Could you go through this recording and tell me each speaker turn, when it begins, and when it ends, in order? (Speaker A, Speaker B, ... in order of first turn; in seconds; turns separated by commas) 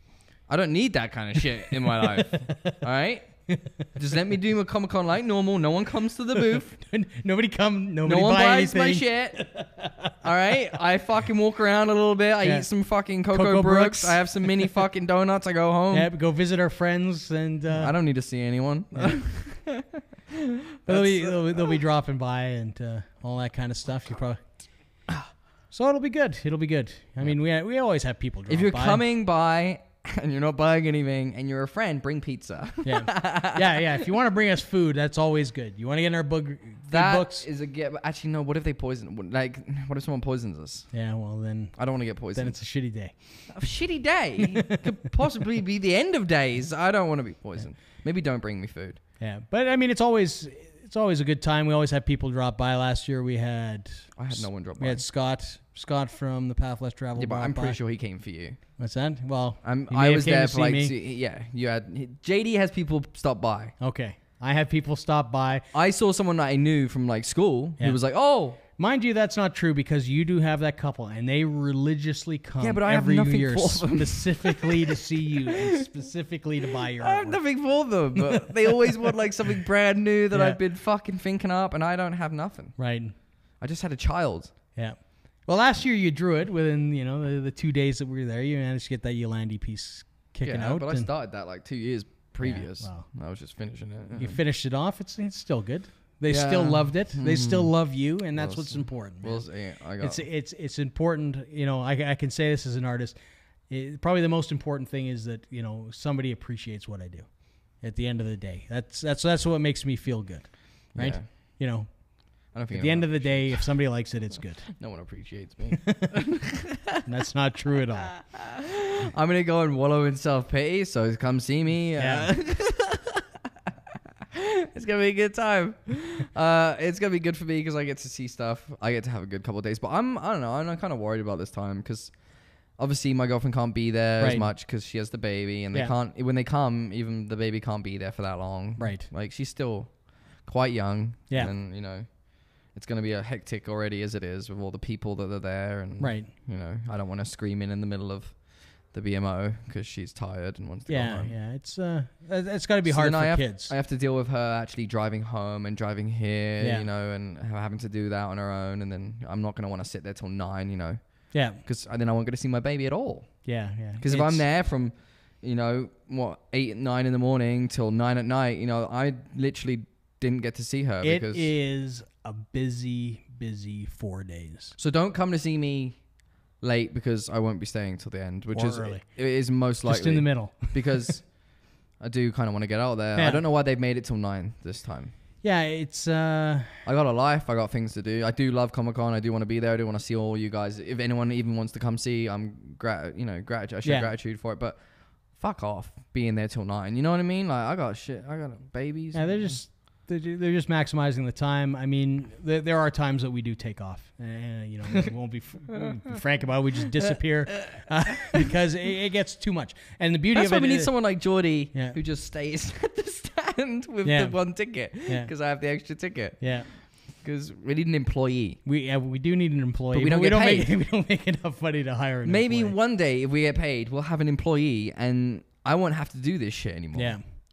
Speaker A: 0.5-3.3, Speaker B: 1.6-2.8, Speaker A: 4.0-6.7, Speaker B: 6.4-10.1, Speaker A: 8.0-9.4, Speaker A: 10.2-16.1, Speaker B: 12.4-12.7, Speaker B: 13.3-14.8, Speaker B: 15.9-17.9, Speaker A: 17.7-21.8, Speaker B: 18.9-19.2, Speaker B: 20.9-24.4, Speaker B: 25.7-29.0, Speaker A: 28.5-34.1, Speaker B: 32.8-37.5, Speaker A: 36.9-40.9, Speaker B: 40.9-41.8, Speaker A: 41.8-42.6, Speaker B: 42.3-43.1, Speaker A: 43.5-49.0, Speaker B: 44.4-44.8, Speaker B: 49.2-57.8, Speaker A: 54.1-55.0, Speaker A: 57.1-58.6, Speaker B: 58.8-60.9, Speaker A: 59.6-63.7, Speaker B: 63.8-65.7, Speaker A: 65.7-68.6, Speaker B: 68.7-77.4, Speaker A: 72.6-75.8, Speaker A: 76.9-82.7, Speaker B: 78.2-79.1, Speaker B: 80.3-80.6, Speaker B: 82.8-83.1, Speaker A: 83.6-84.5, Speaker B: 84.7-91.1, Speaker A: 90.4-94.4, Speaker B: 92.4-93.1, Speaker B: 94.2-99.5, Speaker A: 96.3-97.7, Speaker A: 98.3-100.2, Speaker B: 100.0-103.2, Speaker B: 103.7-111.9, Speaker A: 110.9-111.2, Speaker A: 112.5-113.7, Speaker B: 112.7-114.6, Speaker A: 114.8-117.0, Speaker B: 115.8-116.1, Speaker B: 117.0-118.2, Speaker A: 118.0-123.3, Speaker B: 122.0-122.3, Speaker A: 124.3-132.1, Speaker A: 132.8-142.1, Speaker B: 134.2-134.5, Speaker B: 138.8-139.1, Speaker A: 142.7-148.4, Speaker B: 146.0-146.3, Speaker A: 148.9-151.3, Speaker B: 150.9-153.7, Speaker A: 152.8-161.0, Speaker B: 156.6-156.9, Speaker B: 161.3-161.6, Speaker A: 161.6-163.3, Speaker B: 163.4-164.4, Speaker A: 164.0-171.5, Speaker B: 171.0-174.8, Speaker A: 174.8-176.0, Speaker A: 176.6-181.2, Speaker B: 178.5-179.0, Speaker B: 179.8-181.2, Speaker A: 182.0-185.1, Speaker B: 183.2-183.4, Speaker B: 185.4-186.8, Speaker A: 186.8-194.8, Speaker B: 193.8-194.1, Speaker A: 195.3-199.6, Speaker B: 199.1-210.9, Speaker A: 205.7-206.0, Speaker A: 207.0-207.8, Speaker A: 210.3-218.6, Speaker B: 214.0-214.4, Speaker B: 215.1-215.3, Speaker B: 216.4-216.7, Speaker B: 218.6-222.7, Speaker A: 219.9-220.8, Speaker A: 222.2-227.2, Speaker B: 226.9-227.2